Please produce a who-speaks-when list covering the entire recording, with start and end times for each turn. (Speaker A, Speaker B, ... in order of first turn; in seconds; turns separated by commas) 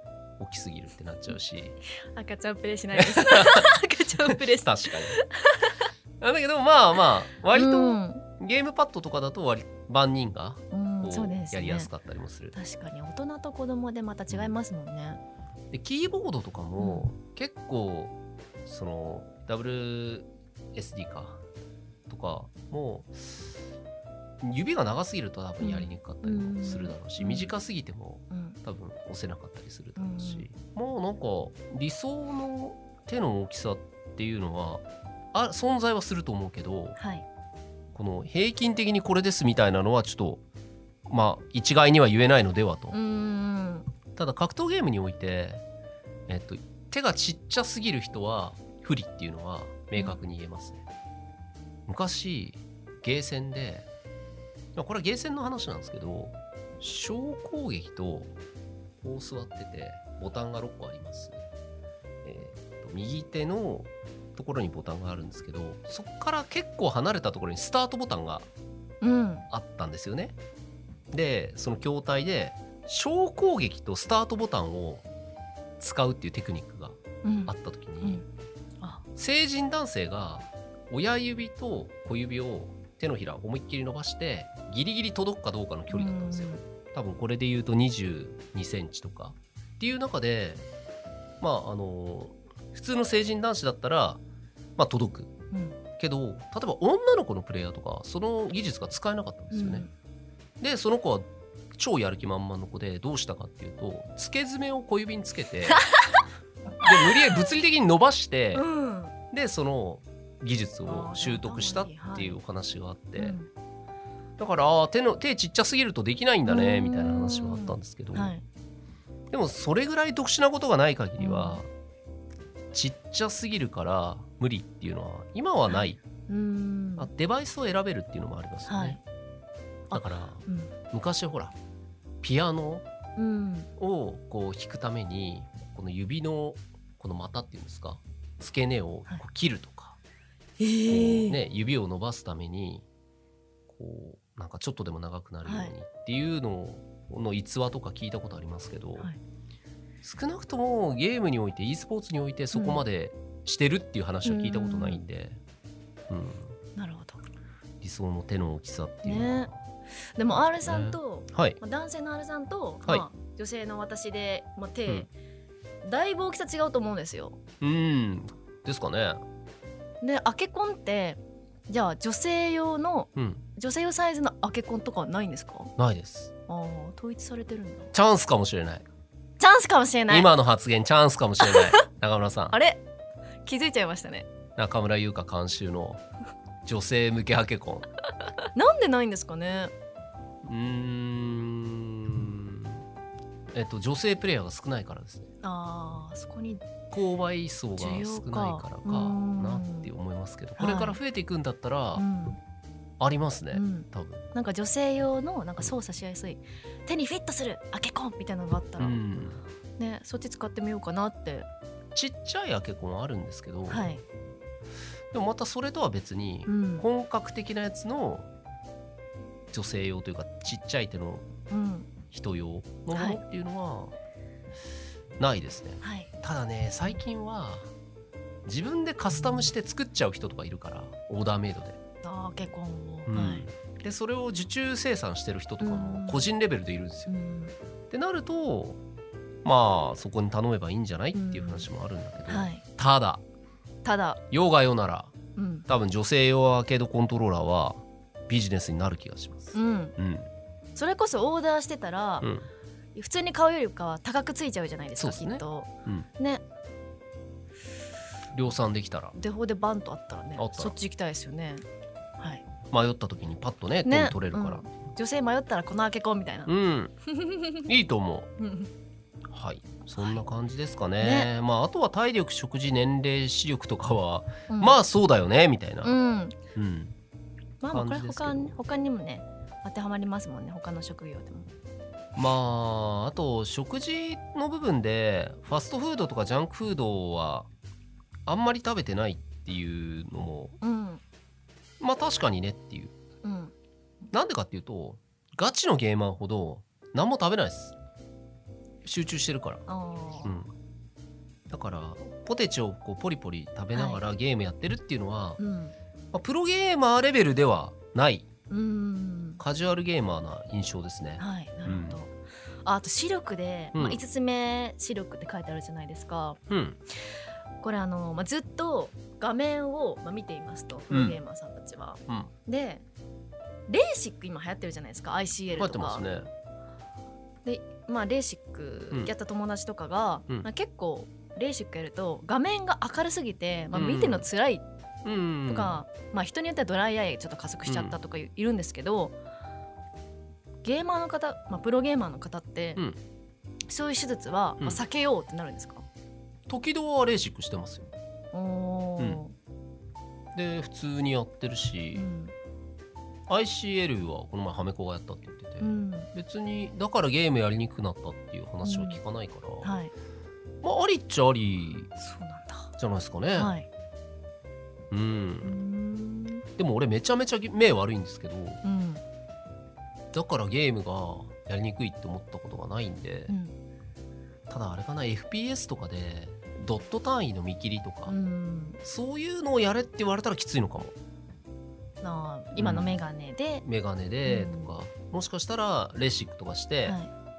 Speaker A: 0.4-1.8, Speaker B: 2.0-5.9, Speaker A: 2.9-3.7, Speaker A: 4.3-5.2, Speaker A: 6.2-12.6, Speaker B: 7.5-8.2, Speaker B: 10.7-11.9, Speaker B: 12.5-15.2, Speaker A: 15.7-18.1, Speaker B: 16.8-17.1, Speaker A: 18.6-21.4, Speaker A: 22.1-23.5, Speaker A: 24.4-37.0, Speaker B: 25.6-27.5, Speaker B: 28.3-28.6, Speaker B: 30.0-30.5, Speaker B: 37.0-37.2, Speaker A: 37.9-40.4, Speaker A: 41.1-43.0, Speaker B: 42.9-43.9, Speaker A: 44.2-45.6, Speaker A: 46.3-50.8, Speaker A: 51.9-53.9, Speaker A: 54.8-58.3, Speaker A: 59.0-61.4, Speaker A: 62.2-68.5, Speaker B: 69.0-69.5, Speaker A: 69.5-70.3, Speaker A: 71.1-75.0, Speaker A: 75.8-78.2, Speaker B: 77.2-78.2, Speaker A: 79.2-90.7, Speaker B: 85.9-86.6, Speaker A: 91.4-94.2, Speaker A: 94.8-95.3, Speaker B: 95.5-95.8, Speaker A: 96.0-99.9, Speaker B: 99.5-99.9, Speaker A: 100.6-105.8, Speaker B: 105.7-106.0, Speaker A: 106.8-108.7, Speaker B: 108.5-109.1, Speaker A: 109.3-113.4, Speaker B: 110.9-112.4, Speaker B: 113.2-113.5, Speaker A: 114.4-118.3, Speaker B: 116.5-118.4, Speaker A: 119.3-121.7, Speaker B: 121.2-121.6, Speaker A: 122.7-126.0, Speaker B: 125.7-127.1, Speaker A: 127.0-129.0, Speaker B: 128.7-129.0, Speaker B: 129.9-130.7, Speaker A: 129.9-131.6, Speaker A: 132.2-132.8, Speaker B: 133.2-133.7, Speaker A: 133.8-140.0, Speaker B: 140.6-141.4, Speaker A: 140.9-142.8, Speaker A: 143.7-149.1, Speaker B: 145.4-145.7, Speaker A: 150.0-155.4, Speaker B: 152.5-152.8, Speaker B: 154.2-155.0, Speaker A: 156.1-156.6, Speaker B: 156.8-157.2, Speaker A: 157.8-159.6, Speaker B: 159.1-159.5, Speaker B: 160.2-165.1, Speaker A: 160.3-161.6, Speaker B: 165.8-167.4, Speaker A: 167.6-169.2, Speaker B: 170.0-175.7, Speaker A: 173.2-173.4, Speaker A: 175.8-176.3, Speaker B: 176.5-177.9, Speaker A: 177.9-178.8, Speaker B: 179.4-180.3, Speaker A: 180.1-182.6, Speaker B: 181.4-181.7, Speaker B: 182.5-182.8, Speaker B: 183.4-184.3, Speaker A: 184.6-186.0, Speaker A: 186.6-187.9, Speaker B: 188.6-189.7, Speaker A: 190.4-192.8, Speaker A: 193.5-195.3, Speaker B: 195.4-196.7, Speaker A: 196.9-202.0, Speaker B: 197.8-199.9, Speaker B: 200.6-201.0, Speaker B: 201.9-202.4, Speaker A: 203.0-204.3, Speaker B: 203.5-209.0, Speaker A: 208.8-209.4, Speaker B: 209.8-211.5, Speaker A: 211.9-213.9, Speaker B: 213.7-214.0, Speaker A: 215.1-218.3, Speaker B: 216.5-216.9, Speaker A: 219.5-221.3, Speaker B: 221.5-221.9, Speaker A: 222.1-223.9, Speaker B: 222.9-223.2, Speaker A: 225.2-227.7, Speaker B: 225.8-226.1, Speaker A: 228.4-231.8, Speaker B: 232.0-233.4, Speaker A: 233.1-237.1, Speaker B: 235.6-236.3, Speaker B: 237.1-237.5, Speaker A: 237.9-238.8, Speaker A: 239.4-243.2, Speaker B: 241.1-241.7, Speaker B: 242.3-242.6, Speaker B: 243.8-244.2, Speaker A: 244.3-245.1, Speaker B: 245.4-245.7, Speaker A: 245.7-250.3, Speaker B: 249.6-249.9, Speaker B: 250.8-252.3, Speaker A: 252.2-252.5, Speaker B: 252.9-256.4, Speaker A: 255.0-256.1, Speaker A: 258.3-259.2, Speaker B: 259.2-261.6, Speaker A: 260.4-260.7, Speaker B: 262.2-262.4, Speaker A: 262.7-264.6, Speaker B: 263.9-266.5, Speaker A: 266.5-266.9, Speaker B: 267.1-267.7, Speaker A: 267.6-268.3, Speaker B: 268.4-268.7, Speaker A: 269.3-275.9, Speaker B: 270.0-270.3, Speaker B: 271.0-271.3, Speaker B: 274.5-274.8, Speaker B: 275.8-276.4, Speaker A: 276.6-276.9, Speaker B: 277.6-281.5, Speaker A: 277.7-278.6, Speaker A: 282.2-287.5, Speaker A: 288.3-290.6, Speaker B: 290.6-291.0, Speaker A: 291.8-292.9, Speaker B: 293.2-293.5, Speaker A: 294.1-297.8, Speaker A: 298.8-299.6, Speaker B: 299.7-300.3, Speaker A: 300.2-300.5, Speaker A: 301.5-305.4, Speaker B: 303.7-304.0, Speaker B: 305.4-305.8, Speaker A: 306.1-308.3, Speaker B: 308.5-309.4, Speaker A: 309.4-312.0, Speaker B: 311.2-316.4, Speaker A: 313.7-314.0, Speaker A: 316.5-316.8, Speaker B: 317.6-322.8, Speaker A: 320.9-321.2, Speaker B: 323.7-326.1, Speaker A: 325.6-326.3, Speaker B: 327.4-334.6, Speaker A: 333.7-334.3, Speaker A: 335.1-335.8, Speaker B: 335.5-339.1, Speaker A: 337.7-338.0, Speaker B: 340.6-342.8, Speaker B: 343.7-345.9, Speaker A: 346.5-347.9, Speaker B: 348.3-349.3, Speaker A: 350.4-352.1, Speaker B: 351.9-352.3, Speaker A: 353.3-359.7, Speaker B: 355.6-356.1, Speaker B: 358.6-359.0, Speaker B: 359.6-359.9, Speaker A: 360.6-361.9, Speaker B: 362.0-362.7, Speaker A: 362.8-363.5, Speaker B: 363.4-363.7, Speaker A: 364.9-365.6, Speaker B: 365.4-366.4, Speaker A: 366.6-368.6, Speaker B: 368.6-369.0, Speaker A: 370.1-373.3, Speaker B: 373.3-373.5, Speaker A: 374.5-378.2, Speaker B: 378.1-378.8, Speaker A: 378.8-380.9, Speaker B: 382.0-383.6, Speaker A: 382.6-383.0, Speaker A: 383.6-387.0, Speaker B: 384.2-384.7, Speaker B: 386.8-387.1